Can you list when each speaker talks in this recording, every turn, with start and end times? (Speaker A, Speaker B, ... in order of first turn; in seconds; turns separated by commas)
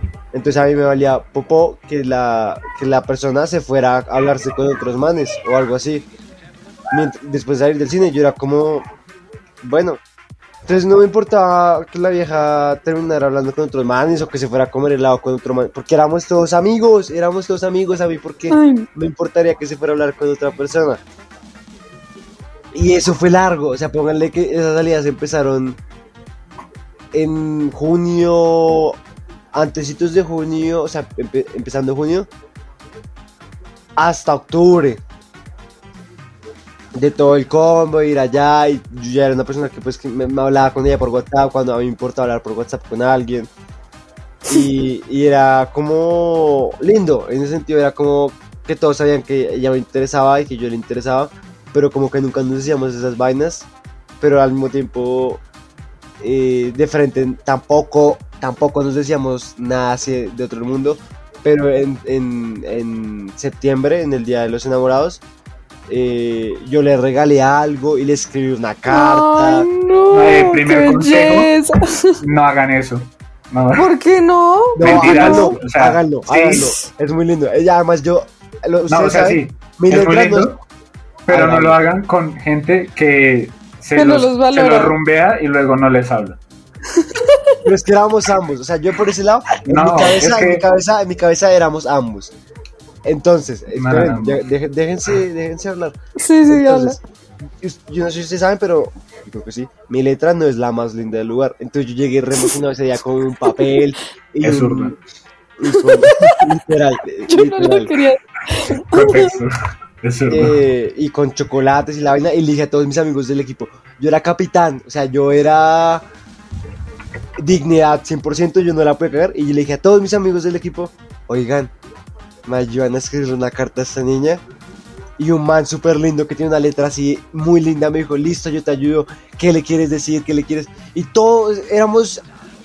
Speaker A: 0.3-6.1, Speaker A: 6.9-8.9, Speaker A: 9.6-10.0, Speaker A: 10.7-21.0, Speaker B: 18.5-18.9, Speaker A: 22.7-25.8, Speaker A: 27.1-29.0, Speaker A: 29.5-32.3, Speaker A: 34.0-35.0, Speaker A: 37.0-43.5, Speaker A: 44.5-53.7, Speaker A: 54.2-55.4, Speaker A: 56.2-65.2, Speaker A: 65.9-69.7, Speaker B: 68.9-72.2, Speaker C: 70.1-71.5, Speaker C: 72.2-73.9, Speaker B: 73.8-75.6, Speaker A: 74.8-80.5, Speaker C: 74.8-76.7, Speaker B: 76.5-76.8, Speaker C: 78.9-80.6, Speaker C: 81.2-86.4, Speaker A: 81.3-81.8, Speaker B: 84.0-84.9, Speaker B: 86.9-87.4, Speaker A: 87.6-92.3, Speaker C: 89.6-90.6, Speaker A: 93.0-96.0, Speaker C: 93.7-94.4, Speaker B: 96.2-97.0, Speaker A: 96.5-97.0, Speaker A: 97.6-104.9, Speaker C: 104.4-104.9, Speaker A: 105.6-107.9, Speaker B: 105.7-106.4, Speaker B: 107.3-109.3, Speaker C: 108.9-110.6, Speaker A: 110.3-116.0, Speaker A: 117.4-121.7, Speaker A: 122.5-124.4, Speaker A: 125.2-132.2